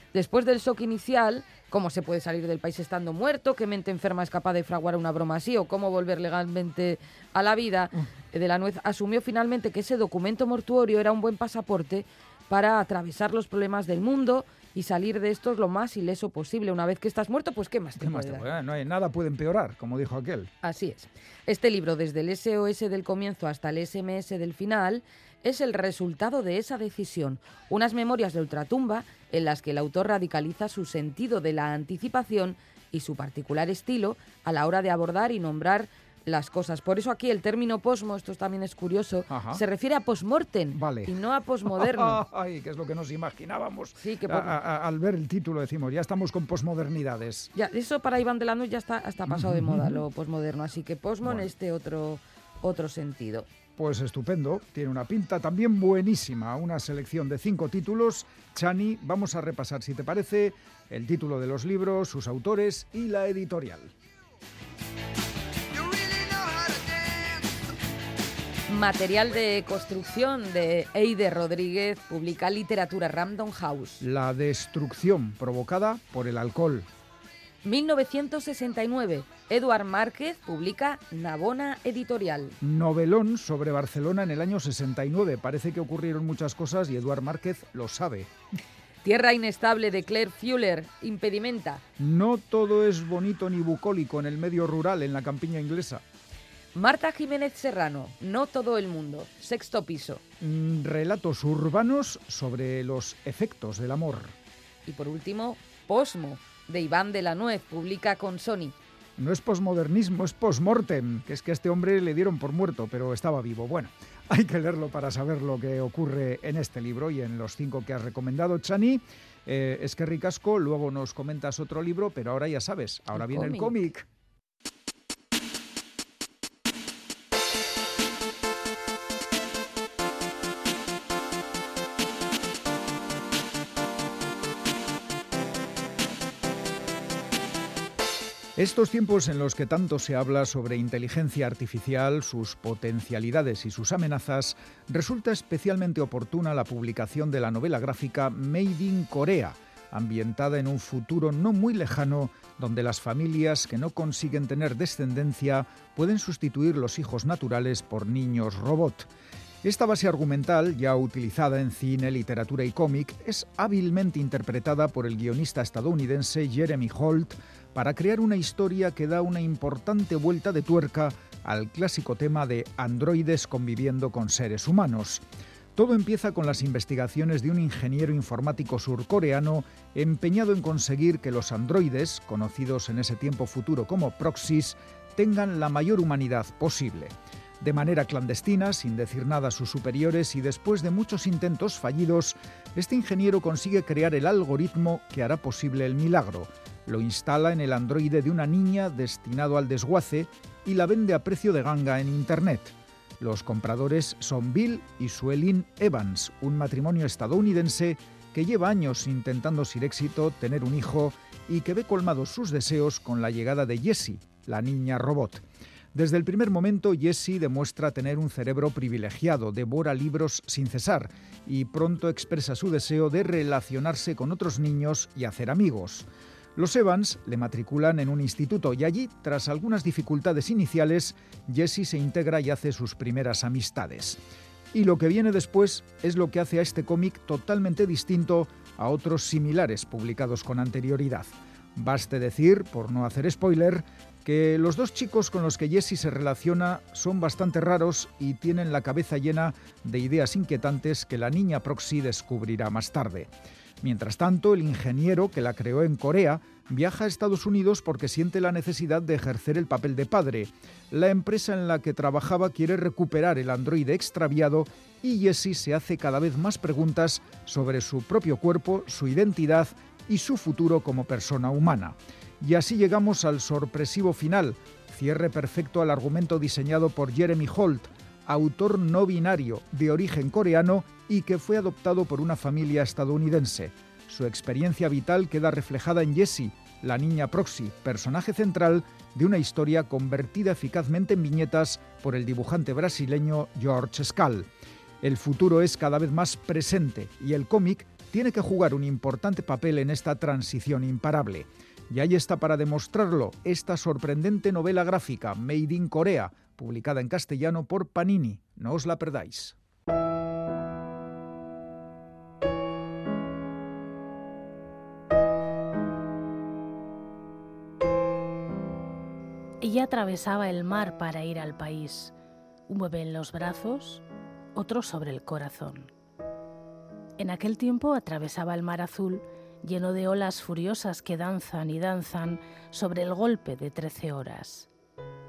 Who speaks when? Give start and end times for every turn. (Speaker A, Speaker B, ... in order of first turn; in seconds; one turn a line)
Speaker A: 0.1-18.4
Speaker B: 17.9-20.5
Speaker A: 20.6-42.2
Speaker B: 39.3-39.6
Speaker B: 40.7-41.1
Speaker B: 41.6-47.5
Speaker A: 44.0-44.6
Speaker A: 47.5-53.5
Speaker B: 49.3-50.0
Speaker B: 51.2-51.5
Speaker B: 53.8-63.9
Speaker A: 68.7-74.0
Speaker B: 74.0-76.9
Speaker A: 77.6-82.6
Speaker B: 82.6-88.3
Speaker A: 89.0-91.8
Speaker B: 92.0-96.0
Speaker A: 96.7-100.2
Speaker B: 100.4-104.3
Speaker A: 104.8-108.7
Speaker B: 109.2-124.0
Speaker A: 123.1-123.7
Speaker B: 138.6-159.1
Speaker B: 159.6-175.2
Speaker B: 175.7-215.4
Speaker B: 215.9-234.2
Speaker B: 234.7-294.5
Speaker B: 295.0-309.6
Speaker C: 319.6-322.1
Speaker C: 322.7-324.0
Speaker C: 324.5-325.9
Speaker C: 327.2-334.7